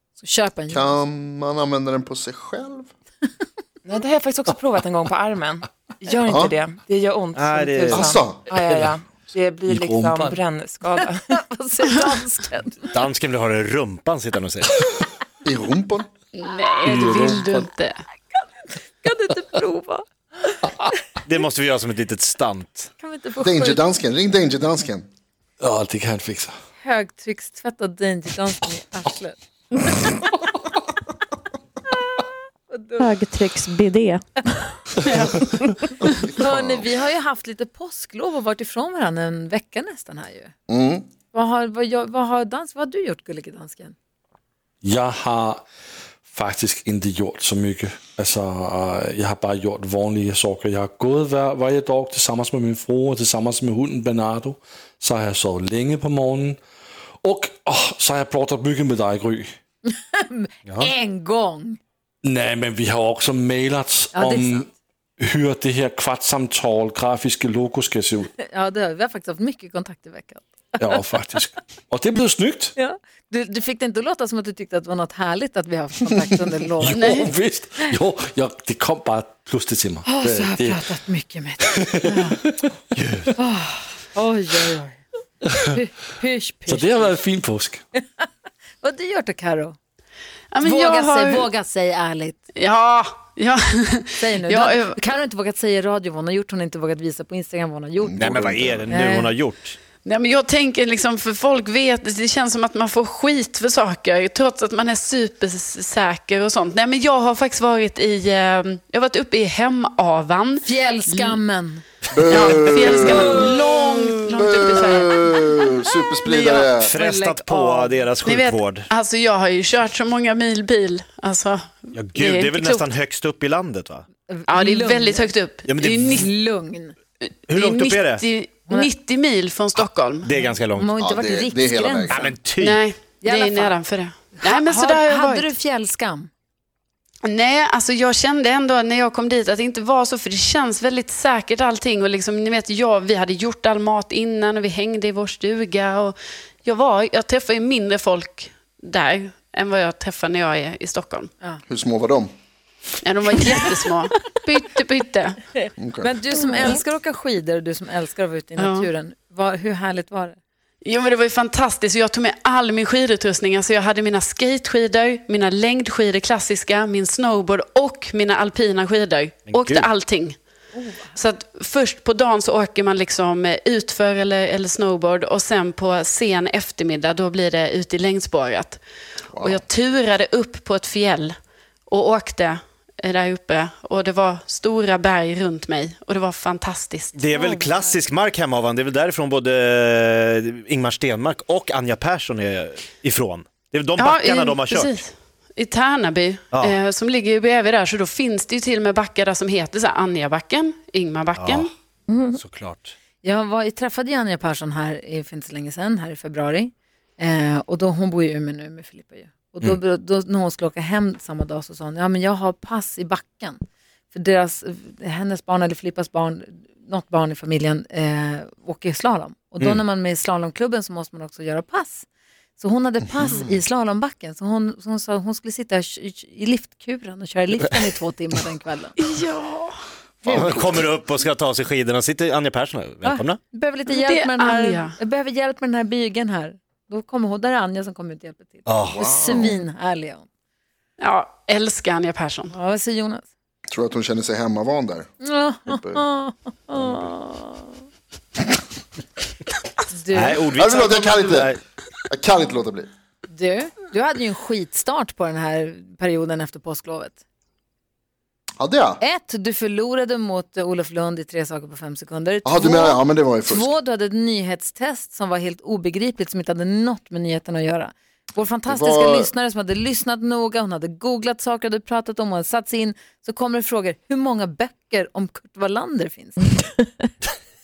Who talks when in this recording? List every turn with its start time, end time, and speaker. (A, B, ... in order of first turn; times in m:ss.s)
0:00.2-0:00.9 A
0:00.7-0:02.9 B
0:03.8-0:11.3 C
0:06.2-0:06.5 B
0:07.4-0:08.1 D
0:07.9-0:08.4 B
0:09.7-0:10.4 E
0:11.0-0:12.9 A
0:12.9-0:14.8 D
0:15.4-0:16.1 B
0:16.3-0:18.0 F
0:16.8-0:17.6 E
0:19.0-0:20.0 A
0:21.2-0:22.9 D
0:23.0-0:23.8 A
0:23.4-0:25.1 B
0:25.6-0:26.5 E
0:26.8-0:29.4 A
0:32.7-0:33.1 A
0:33.0-0:34.8 G
0:35.1-0:35.3 F
0:36.0-0:36.9 B
0:36.3-0:40.5 A
0:40.7-0:41.1 B
0:41.3-0:43.9 A
0:44.8-0:45.6 E
0:46.2-0:56.6 E
0:57.2-0:59.4 E
0:59.8-1:01.8 A
1:02.2-1:04.6 E
1:04.1-1:04.7 A
1:05.2-1:08.3 E
1:08.4-1:11.4 A
1:10.8-1:12.7 E
1:12.8-1:17.0 A
1:16.8-1:20.8 E
1:16.9-1:17.3 F
1:20.0-1:22.4 A
1:21.6-1:22.7 E
1:22.9-1:23.3 D
1:23.4-1:25.0 A
1:25.7-1:27.1 A
1:26.7-1:27.8 E
1:27.9-1:28.2 A
1:28.8-1:29.8 A
1:30.5-1:31.4 F
1:30.6-1:32.4 A
1:32.5-1:35.0 F
1:34.2-1:39.3 A
1:38.1-1:38.9 B
1:38.2-1:39.8 D
1:40.0-1:51.4 F
1:50.6-1:51.8 A
1:52.1-1:53.7 B
1:52.2-1:55.7 F
1:52.9-1:53.5 A
1:54.4-1:56.9 B
1:56.3-1:56.6 F
1:56.3-1:58.1 A
1:56.8-1:58.9 D
1:58.2-2:02.9 F
2:01.9-2:04.0 D
2:04.3-2:05.3 A
2:04.5-2:06.3 F
2:05.6-2:06.2 D
2:06.1-2:06.9 A
2:07.2-2:10.3 F
2:07.5-2:08.2 D
2:09.8-2:10.9 D
2:10.4-2:12.3 A
2:11.0-2:12.3 B
2:12.1-2:12.8 D
2:12.6-2:15.5 F
2:13.2-2:13.8 A
2:14.4-2:16.3 A
2:17.2-2:31.3 F
2:31.7-2:32.3 B
2:33.0-2:35.4 F
2:35.8-2:36.1 B
2:36.0-2:40.4 A
2:38.6-2:38.9 F
2:40.8-2:50.4 F
2:49.5-2:49.9 D
2:50.7-2:51.1 A
2:51.1-2:58.8 F
2:59.3-2:59.6 B
2:59.4-3:01.3 F
3:01.9-3:07.2 F
3:07.1-3:15.0 D
3:14.0-3:21.7 F
3:21.4-3:21.6 D
3:22.1-3:22.4 G
3:22.3-3:22.9 D
3:23.2-3:33.6 A
3:34.1-3:42.0 A
3:42.6-3:49.0 A
3:43.2-3:43.6 B
3:49.0-3:49.7 F
3:50.2-3:50.9 B
3:50.3-3:53.4 D
3:53.0-4:00.3 A
3:53.9-3:54.9 F
3:58.6-3:59.4 D
3:58.9-3:59.6 B
4:01.0-4:02.5 F
4:02.5-4:03.3 A
4:03.7-4:05.1 B
4:05.2-4:07.7 A
4:05.6-4:06.0 B
4:06.7-4:07.1 B
4:09.9-4:10.4 A
4:10.1-4:11.6 D
4:10.5-4:11.6 B
4:12.1-4:12.9 B
4:13.3-4:17.2 A
4:18.6-4:19.0 B
4:19.0-4:36.9 A
4:22.4-4:23.7 B
4:28.7-4:29.3 B